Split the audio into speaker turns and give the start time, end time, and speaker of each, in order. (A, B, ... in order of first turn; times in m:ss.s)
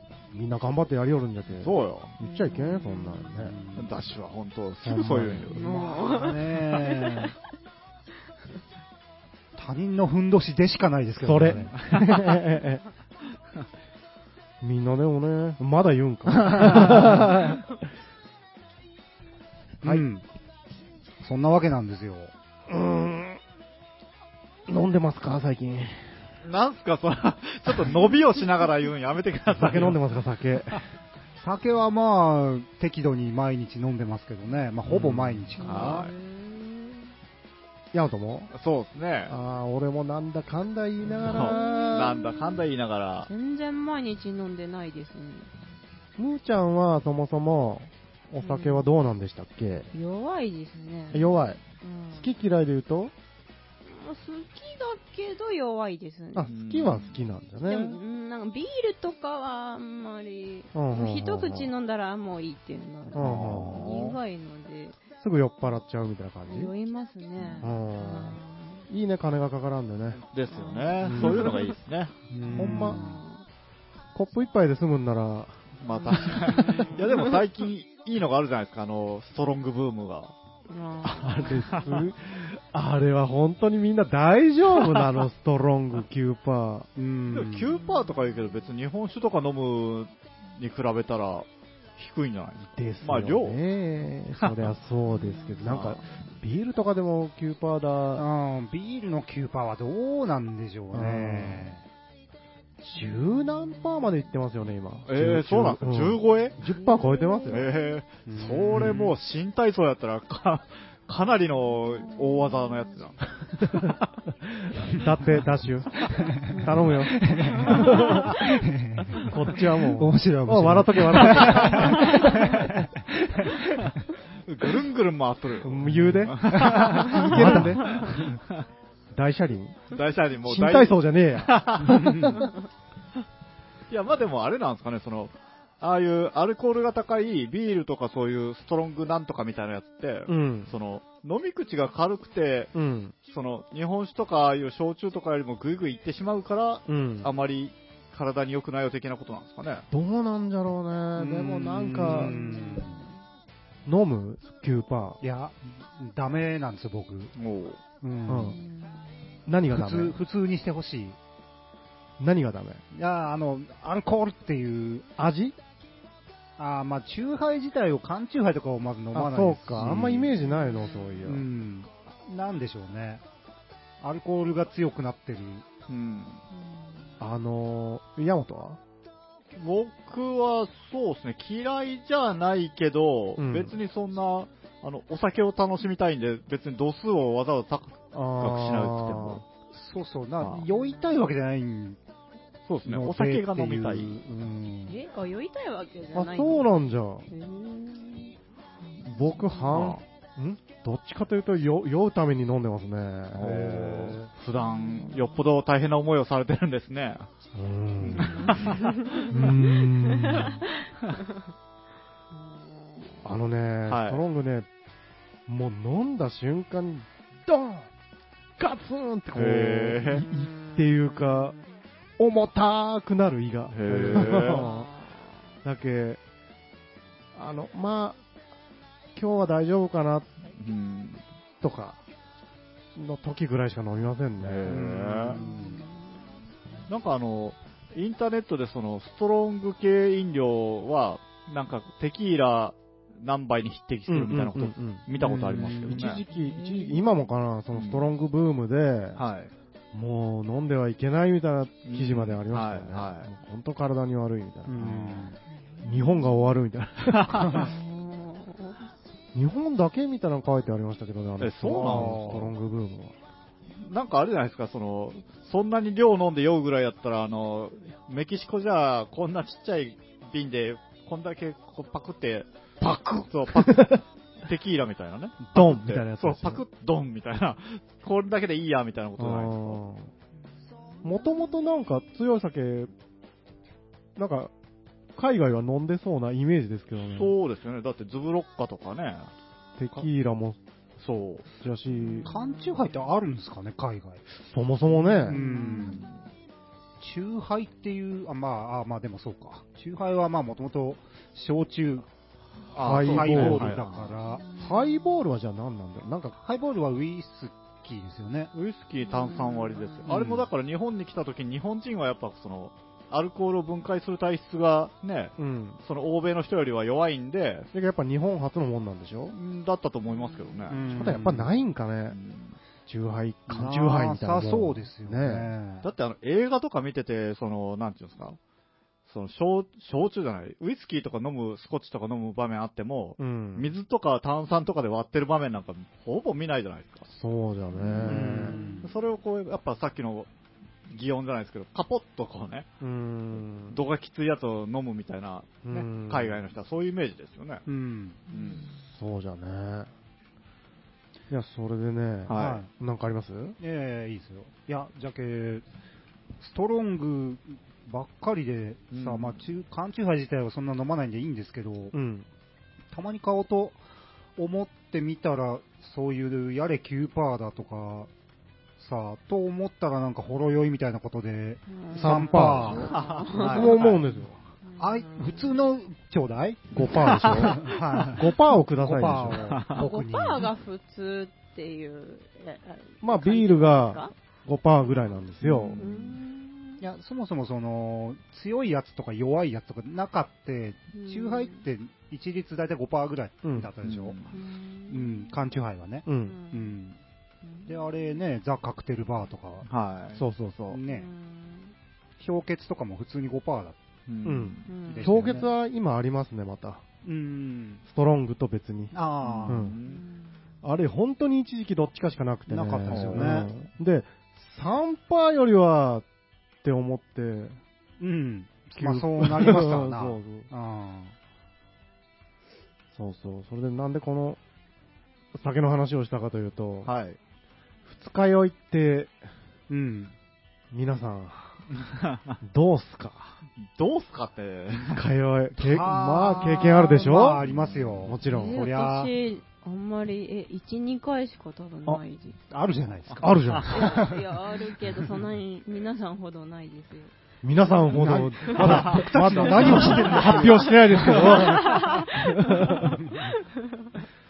0:00.3-0:03.6 A
0:01.6-0:02.1 B
0:02.2-0:03.5 C
0:03.4-0:03.9 D
0:03.7-0:05.6 B
0:04.8-0:05.5 A
0:05.5-0:07.3 C
0:05.5-0:07.3 D
0:09.6-0:11.8 D
0:11.2-0:12.8 A
0:11.7-0:12.3 B
0:14.6-0:17.6 A
0:19.8-0:20.2 D
0:21.2-0:22.3 D
0:22.7-0:23.4 A
0:24.7-0:26.2 A
0:26.4-0:30.0 B
0:29.5-0:30.8 A
0:31.4-0:36.1 D
0:34.9-0:36.1 B
0:35.6-0:37.1 C
0:37.9-0:38.5 A
0:38.5-0:39.3 B
0:39.3-0:42.2 A
0:41.2-0:43.3 B
0:41.2-0:42.6 C
0:43.2-0:45.5 C
0:46.2-0:49.9 A
0:48.4-0:48.9 C
0:49.9-0:52.3 C
0:51.1-0:51.6 A
0:52.1-0:53.1 A
0:53.8-0:56.5 C
0:56.3-0:58.0 A
0:56.5-0:57.2 B
0:57.6-1:05.0 C
1:00.7-1:01.7 A
1:03.1-1:03.9 A
1:03.1-1:04.2 B
1:05.2-1:06.7 A
1:06.5-1:08.9 C
1:07.4-1:07.6 B
1:07.6-1:10.2 A
1:10.2-1:12.2 B
1:10.5-1:11.8 C
1:11.0-1:11.5 A
1:12.3-1:13.0 D
1:12.5-1:13.0 A
1:12.5-1:13.4 C
1:14.1-1:15.6 A
1:15.8-1:20.3 B
1:15.9-1:17.4 C
1:20.7-1:22.0 C
1:21.0-1:26.9 A
1:27.0-1:27.8 D
1:27.3-1:31.4 B
1:27.8-1:28.3 C
1:32.0-1:33.6 B
1:32.7-1:38.2 A
1:34.4-1:34.7 B
1:35.1-1:35.8 C
1:35.6-1:36.0 B
1:38.2-1:41.8 D
1:40.9-1:41.7 A
1:42.8-1:47.7 A
1:45.1-1:46.6 B
1:46.6-1:47.7 C
1:47.5-1:54.0 B
1:48.2-1:49.1 D
1:53.6-1:53.9 A
1:54.4-1:58.3 A
1:56.1-2:03.9 D
1:57.4-1:58.5 C
1:59.3-2:02.9 A
2:01.3-2:01.8 B
2:02.1-2:02.4 C
2:04.4-2:08.6 B
2:05.6-2:08.2 A
2:06.4-2:08.3 D
2:09.1-2:09.9 A
2:09.9-2:12.4 B
2:10.4-2:12.2 A
2:11.8-2:12.5 D
2:13.9-2:22.7 B
2:20.3-2:20.7 A
2:22.7-2:23.1 A
2:23.3-2:29.9 B
2:26.9-2:27.3 A
2:29.9-2:32.3 A
2:31.1-2:33.0 D
2:32.1-2:33.2 C
2:33.8-2:35.2 A
2:35.2-2:37.3 D
2:37.4-2:37.8 B
2:38.0-2:38.6 D
2:38.3-2:38.6 A
2:38.4-2:39.2 C
2:39.4-2:40.2 A
2:39.7-2:41.2 D
2:42.2-2:42.8 A
2:42.9-2:45.1 D
2:45.2-2:45.6 A
2:46.6-2:50.3 D
2:49.1-2:51.5 A
2:50.4-2:51.2 C
2:51.2-2:53.2 D
2:54.0-2:55.6 D
2:55.9-2:56.4 B
2:56.6-2:56.9 C
2:57.2-2:58.8 A
2:59.5-3:09.4 B
3:03.4-3:03.8 A
3:08.1-3:09.4 A
3:09.7-3:12.0 D
3:12.7-3:14.2 B
3:12.8-3:15.0 D
3:14.9-3:16.7 C
3:16.1-3:17.3 A
3:17.3-3:18.3 C
3:19.0-3:24.1 A
3:19.4-3:19.6 C
3:19.7-3:20.0 B
3:23.3-3:27.3 B
3:23.7-3:24.2 D
3:24.6-3:25.3 C
3:27.5-3:28.6 A
3:28.1-3:29.2 B
3:28.4-3:29.3 C
3:29.3-3:30.6 A
3:30.1-3:30.7 C
3:32.7-3:33.2 C
3:33.2-3:34.7 A
3:33.9-3:34.2 B
3:35.5-3:37.9 A
3:38.6-3:41.5 A
3:39.3-3:40.2 B
3:40.3-3:41.6 C
3:42.2-3:44.9 A
3:43.7-3:44.6 B
3:44.4-3:45.3 C
3:45.6-3:46.2 A
3:47.3-3:48.2 A
3:49.1-3:50.3 A
3:50.6-3:51.2 B
3:51.6-3:52.0 A
3:52.9-3:55.4 A
3:54.4-3:55.4 B
3:54.7-3:55.8 D
3:55.4-3:56.1 C
3:56.9-4:06.2 B
4:04.1-4:09.2 A
4:05.2-4:06.0 D
4:06.0-4:07.2 C
4:07.7-4:08.1 B
4:09.2-4:09.5 B
4:09.9-4:14.9 A
4:11.8-4:13.3 B
4:14.7-4:15.4 D
4:14.8-4:15.3 B
4:15.7-4:16.5 C
4:15.8-4:17.6 A
4:17.0-4:17.5 B
4:17.3-4:17.7 D
4:17.6-4:18.8 C
4:19.3-4:23.1 A
4:21.4-4:22.5 B
4:21.8-4:22.5 D
4:23.8-4:39.8 B
4:32.8-4:34.0 A
4:35.5-4:36.6 A
4:39.2-4:40.1 A
4:41.0-4:42.9 A
4:44.2-4:44.5 A
4:45.1-4:47.3 A
4:47.0-4:49.3 B
4:49.8-4:50.6 A
4:51.0-4:51.4 B
4:51.6-4:52.3 A
4:51.9-4:52.7 C
4:52.3-4:54.2 D
4:54.4-4:55.4 A
4:55.2-4:56.0 D
4:55.3-4:56.0 C
4:55.8-4:56.2 B
4:57.0-5:02.0 D
5:02.7-5:04.2 B
5:02.8-5:03.8 A
5:02.9-5:04.5 D
5:04.4-5:05.2 C
5:04.5-5:06.4 A
5:06.4-5:08.5 D
5:08.5-5:17.7 B
5:09.1-5:10.1 C
5:10.1-5:10.4 D
5:15.4-5:15.8 A
5:17.7-5:19.4 A
5:19.3-5:21.1 B
5:20.2-5:20.8 C
5:20.7-5:21.5 D
5:20.9-5:22.2 A
5:22.1-5:22.6 B
5:22.9-5:25.5 A
5:23.5-5:25.9 D
5:25.8-5:28.4 B
5:29.1-5:37.1 B
5:33.2-5:33.7 A
5:37.1-5:38.6 A
5:37.8-5:40.3 B
5:38.0-5:38.9 D
5:38.4-5:38.9 C
5:40.9-5:42.7 B
5:42.8-5:43.8 A
5:43.7-5:47.6 B
5:45.6-5:46.4 A
5:47.6-5:48.2 D
5:48.3-5:48.6 B
5:48.3-5:48.7 C
5:48.8-5:49.9 A
5:51.3-5:53.6 A
5:52.3-5:52.6 B
5:52.3-5:52.7 D
5:53.6-5:55.6 D
5:56.4-6:01.9 D
5:58.9-5:59.4 B
6:01.9-6:02.3 A
6:02.9-6:03.8 D
6:04.4-6:08.1 D
6:08.8-6:12.9 D
6:11.7-6:13.8 C
6:11.9-6:14.4 A
6:12.7-6:14.0 B
6:14.6-6:15.7 C
6:14.8-6:20.5 D
6:16.7-6:19.6 A
6:16.9-6:17.7 B
6:19.4-6:19.8 B
6:19.8-6:24.1 C
6:23.0-6:25.8 A
6:25.4-6:26.0 B
6:25.8-6:26.8 C
6:26.8-6:34.2 D
6:30.9-6:31.6 C
6:33.4-6:33.7 A
6:33.8-6:34.3 B
6:34.3-6:35.4 C
6:34.9-6:37.0 D
6:36.0-6:36.4 A
6:36.2-6:36.8 C
6:37.4-6:38.2 C
6:37.7-6:39.6 D
6:39.6-6:40.2 B
6:40.1-6:40.8 A
6:40.7-6:41.1 D
6:40.9-6:41.7 C
6:42.2-6:43.8 D
6:44.1-6:44.7 B
6:44.2-6:46.8 A
6:44.6-6:45.1 C
6:44.8-6:45.5 D
6:47.0-6:47.8 D
6:47.9-6:48.9 A
6:48.9-6:49.7 D
6:49.2-6:50.0 B
6:49.5-6:49.8 A
6:49.8-6:50.3 C
6:50.6-6:56.0 A
6:52.5-6:53.5 D
6:52.9-6:53.5 B
6:56.6-6:57.6 A
6:58.0-7:01.1 D
6:58.8-7:00.5 A
7:02.9-7:04.4 A
7:05.3-7:06.9 A
7:06.8-7:07.2 B
7:07.8-7:09.1 A
7:09.7-7:10.1 D
7:10.7-7:11.6 A
7:11.8-7:12.4 B
7:12.4-7:13.4 A
7:13.6-7:15.0 B
7:14.9-7:17.4 A
7:15.6-7:19.1 D
7:16.3-7:17.2 C
7:17.4-7:18.1 B
7:18.0-7:18.6 A
7:18.2-7:22.4 C
7:22.5-7:24.2 D
7:23.2-7:23.7 A
7:23.7-7:27.1 C
7:27.4-7:33.0 A
7:27.9-7:31.8 D
7:28.5-7:30.5 B
7:29.6-7:33.9 C
7:33.0-7:33.3 D